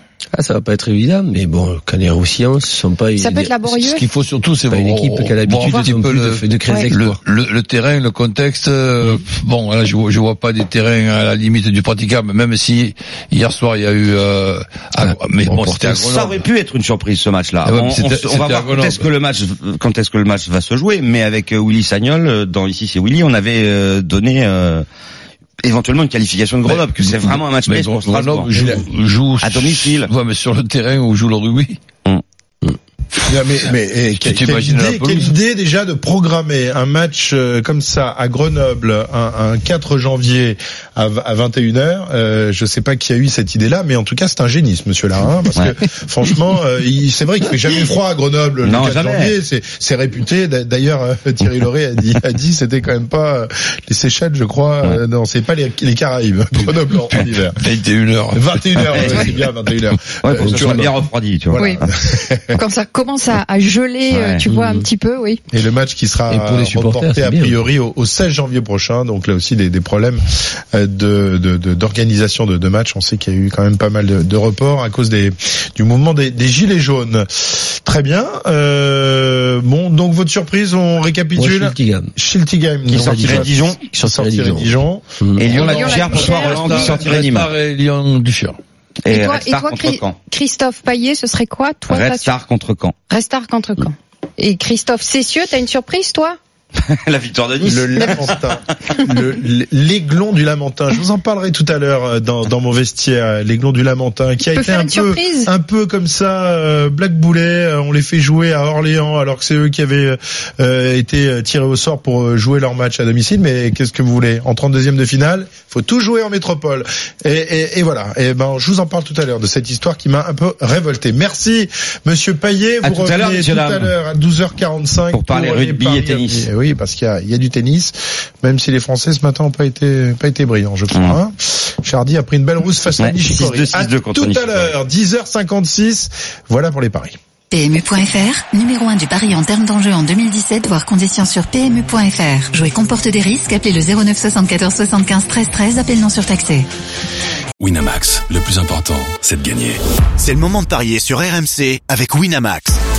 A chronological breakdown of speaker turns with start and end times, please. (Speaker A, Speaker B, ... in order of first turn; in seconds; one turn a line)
Speaker A: 0.3-3.8
Speaker B: 3.2-4.1
Speaker C: 3.8-16.4
Speaker A: 4.7-7.2
Speaker A: 15.0-15.9
Speaker D: 15.8-24.8
Speaker C: 17.6-19.1
Speaker D: 25.6-28.5
Speaker C: 26.6-31.8
Speaker E: 28.5-28.9
Speaker D: 29.4-30.1
Speaker E: 33.2-57.6
Speaker C: 34.2-35.3
Speaker D: 48.6-49.3
Speaker C: 56.6-59.1
Speaker E: 58.3-60.9
Speaker D: 58.9-59.3
Speaker D: 60.2-61.9
Speaker A: 60.4-61.0
Speaker B: 61.5-61.8
Speaker E: 61.6-62.5
Speaker B: 62.5-65.4
Speaker D: 64.1-64.5
Speaker A: 64.5-64.8
Speaker E: 65.5-86.0
Speaker A: 66.3-67.6
Speaker A: 81.3-82.1
Speaker D: 82.9-83.8
Speaker A: 82.9-85.6
Speaker D: 85.4-87.5
Speaker C: 85.5-88.6
Speaker B: 85.6-87.0
Speaker D: 89.0-90.2
Speaker B: 89.1-92.3
Speaker D: 91.9-92.9
Speaker B: 93.1-96.3
Speaker D: 96.8-98.3
Speaker E: 97.6-137.1
Speaker B: 98.0-98.4
Speaker B: 104.5-105.5
Speaker D: 122.8-123.9
Speaker D: 125.1-126.5
Speaker D: 130.9-131.2
Speaker D: 133.0-134.7
Speaker F: 137.5-146.7
Speaker G: 147.6-149.8
Speaker H: 150.2-152.8